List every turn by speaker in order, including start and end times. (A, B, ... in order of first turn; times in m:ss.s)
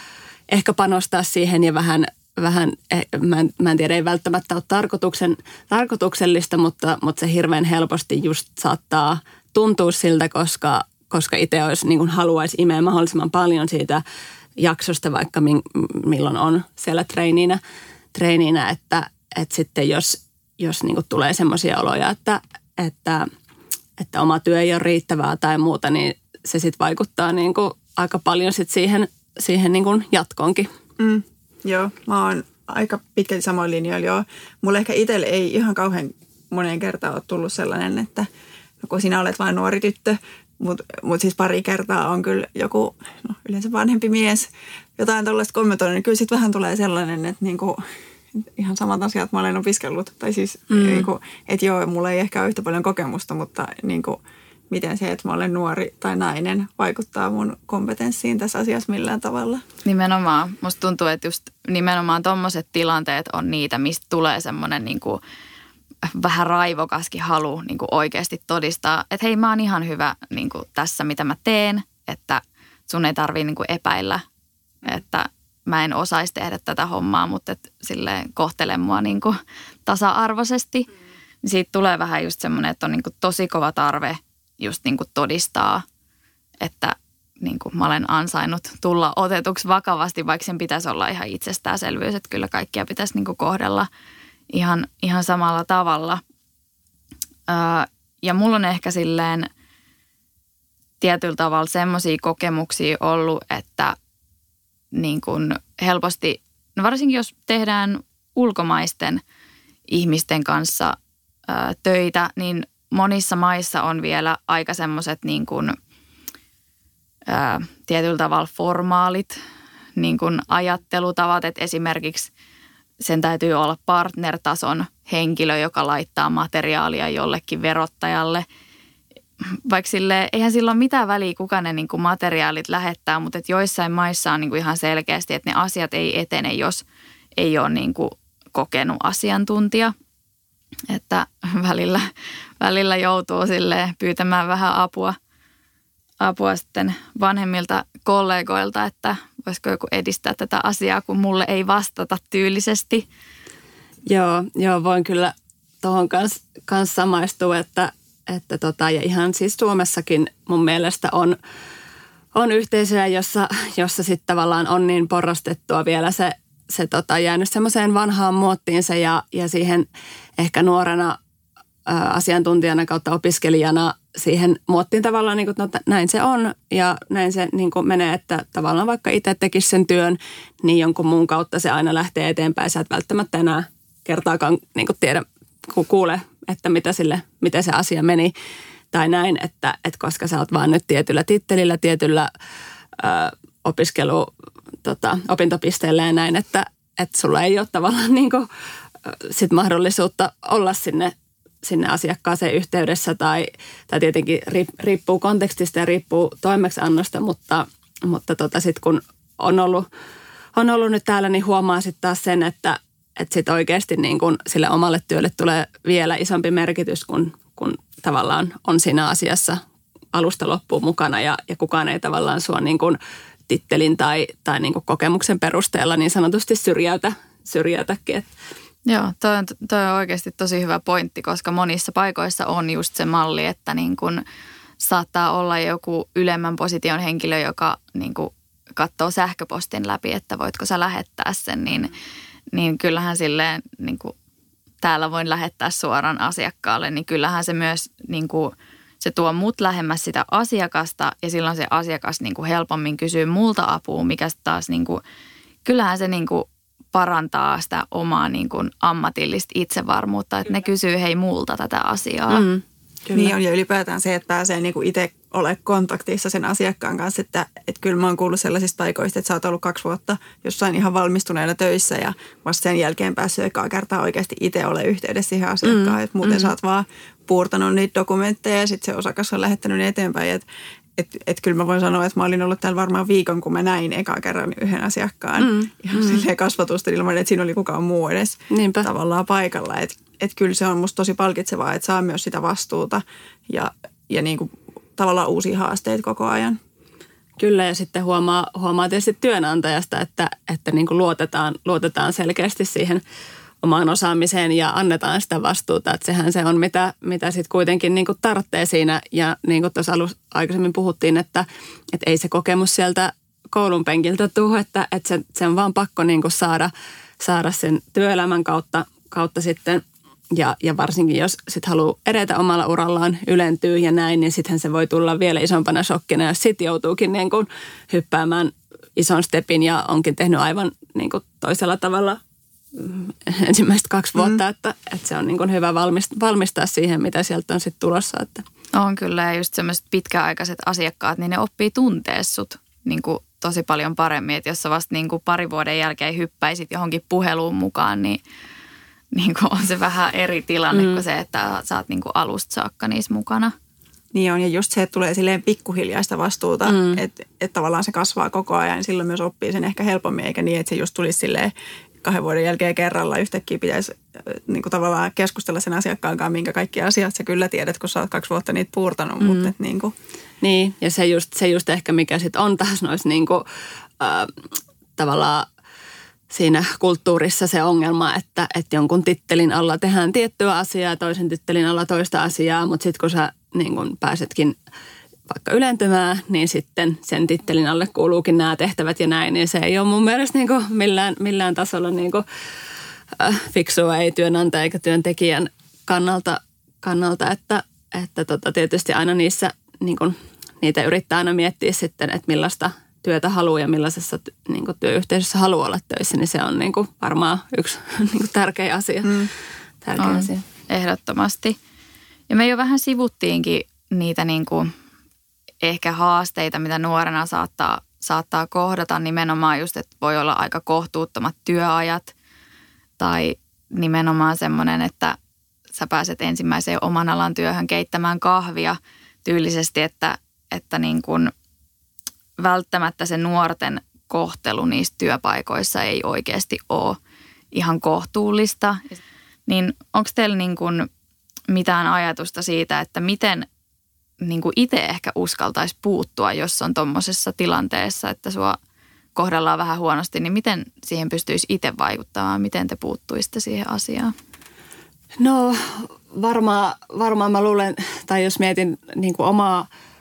0:00.5-0:14.0 A
0:14.6-0:17.6 A
0:18.1-0:23.2 A
0:24.0-0:30.7 A
0:31.0-0:38.3 B
0:38.8-0:47.8 B
0:48.3-0:59.6 B
0:50.7-0:51.1 A
0:59.8-1:05.2 C
1:06.0-1:14.2 C
1:14.8-1:20.9 C
1:21.4-1:25.8 C
1:26.6-1:33.9 C
1:34.5-1:36.2 C
1:37.5-1:39.5 C
1:41.0-1:44.0 C
1:44.9-1:49.2 C
1:49.9-1:51.0 C
1:51.5-1:55.8 C
1:57.3-1:59.4 C
2:00.0-2:02.3 C
2:03.0-2:08.4 C
2:09.6-2:16.8 C
2:17.4-2:19.9 C
2:20.9-2:22.1 C
2:22.6-2:25.2 C
2:26.2-2:33.1 C
2:34.1-2:41.4 A
2:42.3-2:49.9 A
2:50.4-2:51.2 A
2:51.8-3:08.3 A
3:08.9-3:12.3 A
3:13.0-3:14.3 A
3:14.8-3:18.5 A
3:19.0-3:29.9 A
3:30.5-3:39.6 A
3:40.1-3:48.3 A
3:48.8-3:54.2 C
3:54.8-4:01.9 C
4:02.5-4:04.1 C
4:04.8-4:15.0 C
4:15.6-4:22.4 C
4:22.3-4:23.3 A
4:23.1-4:40.4 B
4:35.6-4:36.5 A
4:41.0-4:56.6 B
4:45.4-4:46.2 A
4:48.5-4:48.9 A
4:57.4-5:03.0 A
5:03.6-5:32.2 A
5:32.7-5:38.4 A
5:38.7-5:48.2 C
5:49.1-5:53.5 C
5:50.7-5:51.0 A
5:54.1-6:01.5 B
5:56.6-5:57.0 A
6:02.0-6:09.9 B
6:09.2-6:09.5 A
6:10.4-6:13.4 A
6:14.0-6:15.5 A
6:16.3-6:24.6 A
6:25.3-6:32.2 A
6:33.2-6:49.3 A
6:49.8-6:50.4 A
6:50.0-6:51.6 C
6:52.3-6:54.7 C
6:55.6-7:02.1 C
7:03.0-7:05.2 C
7:05.7-7:11.3 C
7:12.4-7:17.0 C
7:17.5-7:19.0 C
7:19.5-7:20.9 C
7:21.5-7:23.5 C
7:24.2-7:28.6 C
7:29.1-7:34.1 C
7:35.2-7:39.7 A